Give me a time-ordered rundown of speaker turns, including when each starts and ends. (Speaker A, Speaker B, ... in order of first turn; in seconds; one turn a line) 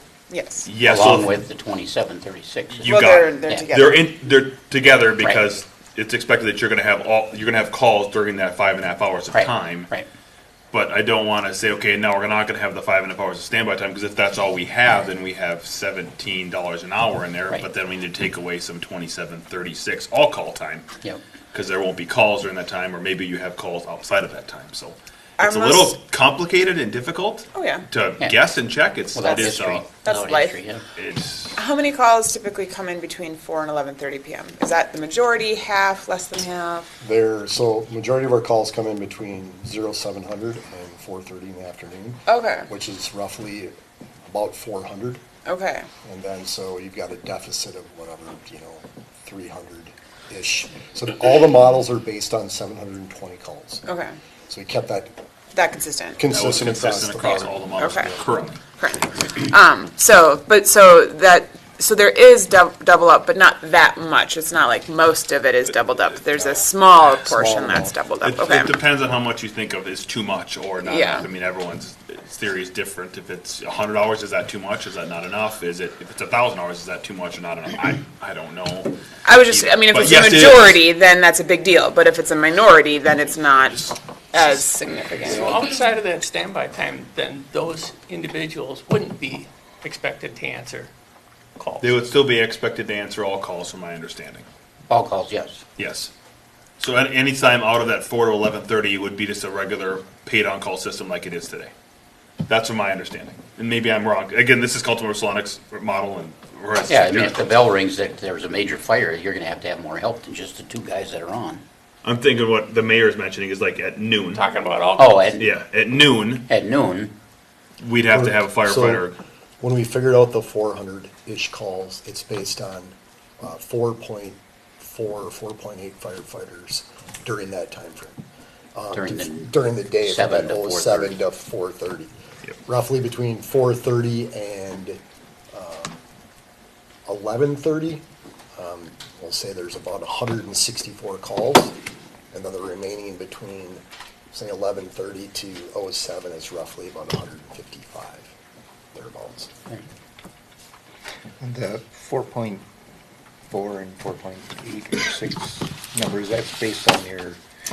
Speaker A: 0.3-0.7
Speaker B: 0.6-1.3
Speaker C: 0.8-3.0
Speaker B: 2.8-9.9
Speaker A: 2.8-4.1
Speaker C: 5.2-5.5
Speaker C: 9.3-10.1
Speaker B: 10.7-20.9
Speaker B: 21.5-29.8
Speaker A: 25.4-25.9
Speaker A: 27.5-27.8
Speaker C: 29.1-30.8
Speaker A: 29.2-30.6
Speaker B: 30.9-31.6
Speaker A: 31.6-36.9
Speaker D: 37.0-43.7
Speaker A: 42.3-42.7
Speaker D: 44.3-45.2
Speaker A: 45.5-45.9
Speaker D: 46.0-53.8
Speaker A: 53.9-54.1
Speaker D: 54.5-55.1
Speaker A: 55.5-56.2
Speaker D: 56.1-58.2
Speaker B: 56.3-58.6
Speaker A: 57.8-58.2
Speaker A: 58.8-68.8
Speaker B: 66.2-78.9
Speaker A: 70.8-71.3
Speaker A: 79.2-85.7
Speaker B: 79.5-80.8
Speaker E: 85.2-90.9
Speaker E: 91.6-92.0
Speaker B: 91.8-94.5
Speaker C: 94.9-95.6
Speaker B: 95.8-96.1
Speaker B: 96.8-101.7
Speaker B: 102.5-107.6
Speaker C: 106.9-111.6
Speaker B: 112.0-114.4
Speaker E: 114.3-115.4
Speaker C: 115.0-115.5
Speaker B: 115.4-116.5
Speaker C: 116.5-117.1
Speaker B: 117.8-119.1
Speaker D: 118.1-119.1
Speaker D: 119.6-128.2
Speaker D: 128.7-132.1
Speaker C: 128.9-131.2
Speaker D: 132.6-135.0
Speaker D: 135.5-136.0
Speaker D: 137.1-138.0
Speaker D: 138.5-141.7
Speaker D: 142.3-143.8
Speaker D: 144.3-148.3
Speaker D: 148.9-149.5
Speaker F: 151.4-152.6
Speaker F: 153.5-157.4